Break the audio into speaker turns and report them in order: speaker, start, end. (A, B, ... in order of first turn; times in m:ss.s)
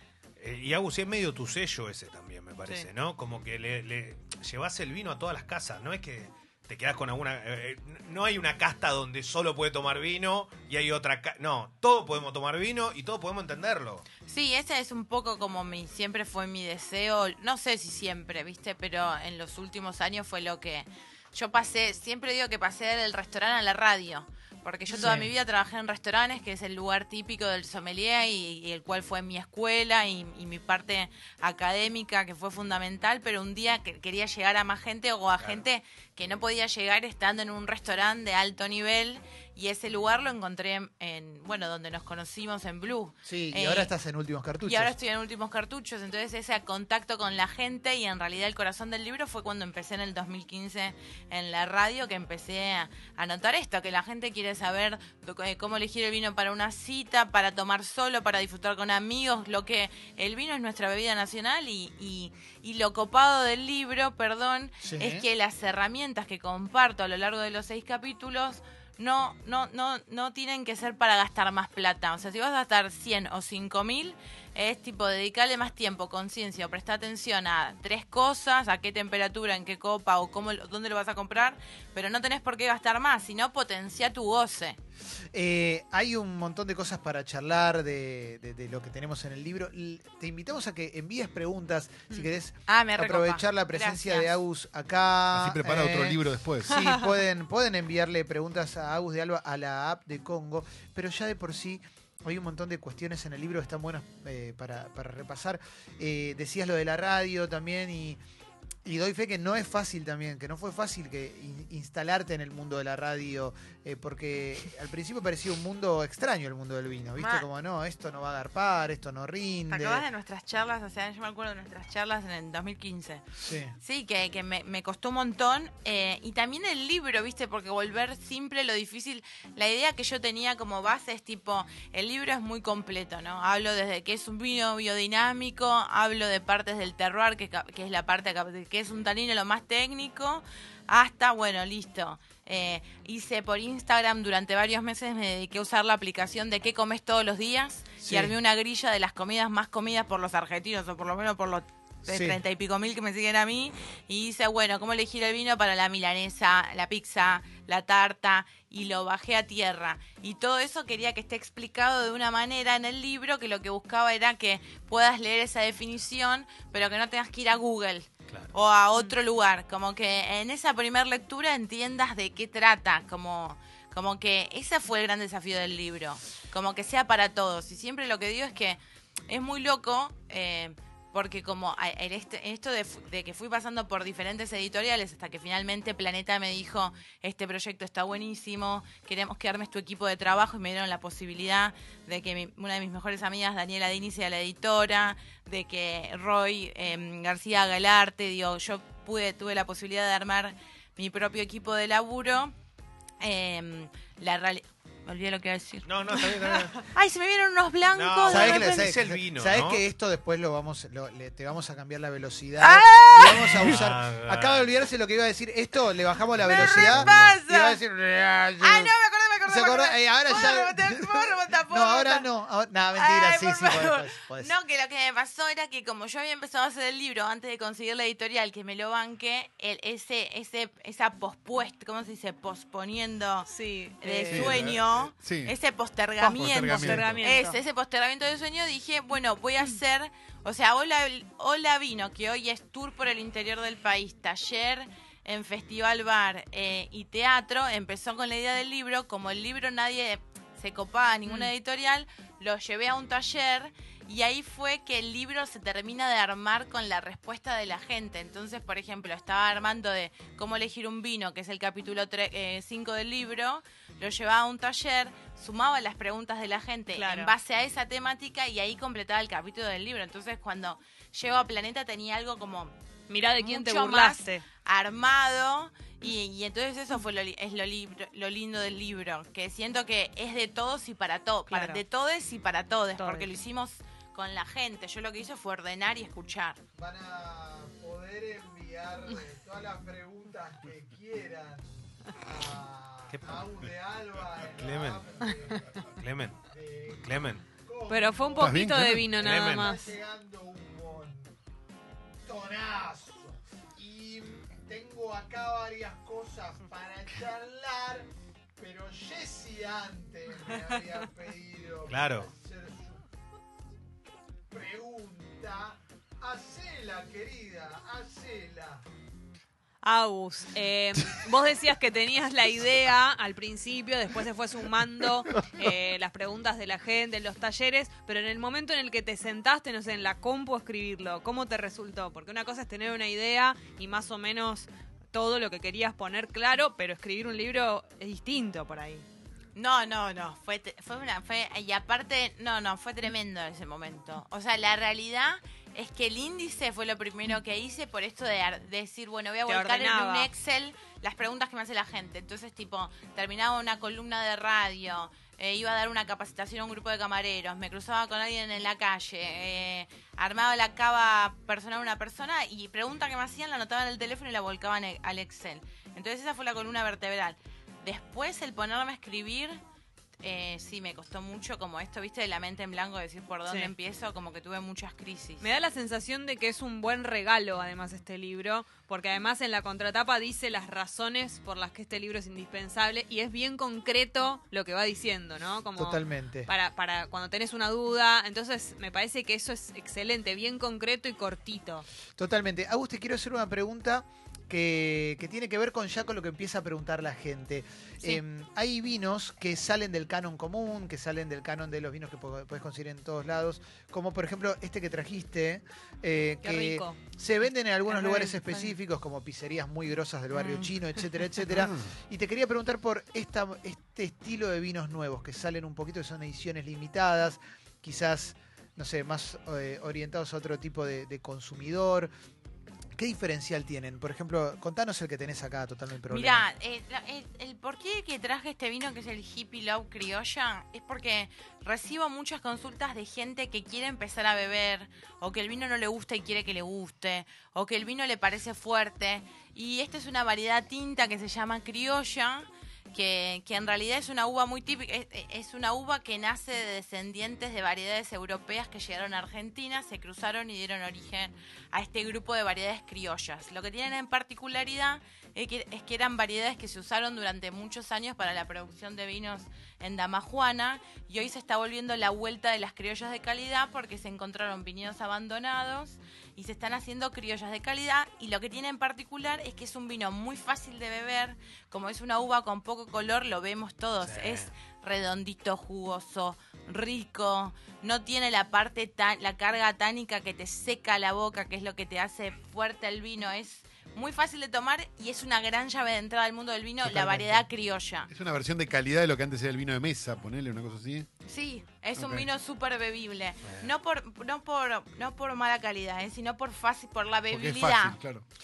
0:00.4-0:14.0 A
0:14.2-0:43.9 B
0:24.9-0:25.2 C
0:25.0-0:25.3 D
0:43.2-0:44.9 D
0:44.6-1:24.8 B
1:04.8-1:05.2 D
1:25.3-1:48.2 D
1:32.7-1:34.3 B
1:35.3-1:36.8 E
1:48.8-2:00.0 D
1:57.2-1:57.4 B
1:59.7-2:03.2 B
2:03.4-2:03.8 D
2:03.8-3:22.5 B
2:28.0-2:28.3 D
2:32.1-2:32.4 D
2:48.3-2:48.5 A
3:23.2-3:28.9 B
3:25.8-3:26.8 A
3:27.9-3:29.8 A
3:28.3-3:38.9 D
3:32.6-3:33.8 B
3:33.3-3:34.7 A
3:36.4-3:37.8 B
3:38.6-3:42.3 B
3:39.5-3:44.5 D
3:43.0-3:53.5 B
3:53.5-3:54.7 C
3:54.0-4:32.7 B
3:54.3-3:55.6 E
3:56.2-3:57.6 C
3:56.2-3:57.3 E
4:11.2-4:11.5 C
4:26.9-4:27.4 C
4:33.1-4:34.4 C
4:33.4-4:46.6 B
4:41.5-4:41.8 C
4:43.0-4:43.3 C
4:46.8-4:58.7 D
4:53.1-4:53.5 A
4:54.3-4:55.1 A
4:55.9-4:56.4 A
4:57.0-4:57.4 A
4:57.9-4:59.9 C
4:58.4-4:59.2 E
4:59.1-4:59.8 A
4:59.2-5:01.3 D
5:02.2-5:08.1 D
5:08.6-5:13.0 D
5:11.9-5:12.3 A
5:14.5-5:18.8 D
5:19.8-5:39.0 C
5:39.6-6:09.6 B
5:49.4-5:50.3 C
6:10.2-6:15.5 B
6:13.4-6:13.7 C
6:15.4-6:31.8 C
6:25.8-6:26.5 D
6:32.2-7:02.1 D
6:46.4-6:47.0 C
6:47.9-6:48.8 C
6:50.3-6:50.7 C
6:51.5-6:51.9 E
7:03.0-7:06.5 D
7:06.1-8:08.1 B
7:54.0-7:54.5 A
8:06.8-8:07.4 D
8:08.1-8:11.1 E
8:11.2-8:18.0 B
8:11.9-8:12.3 E
8:17.3-8:18.2 E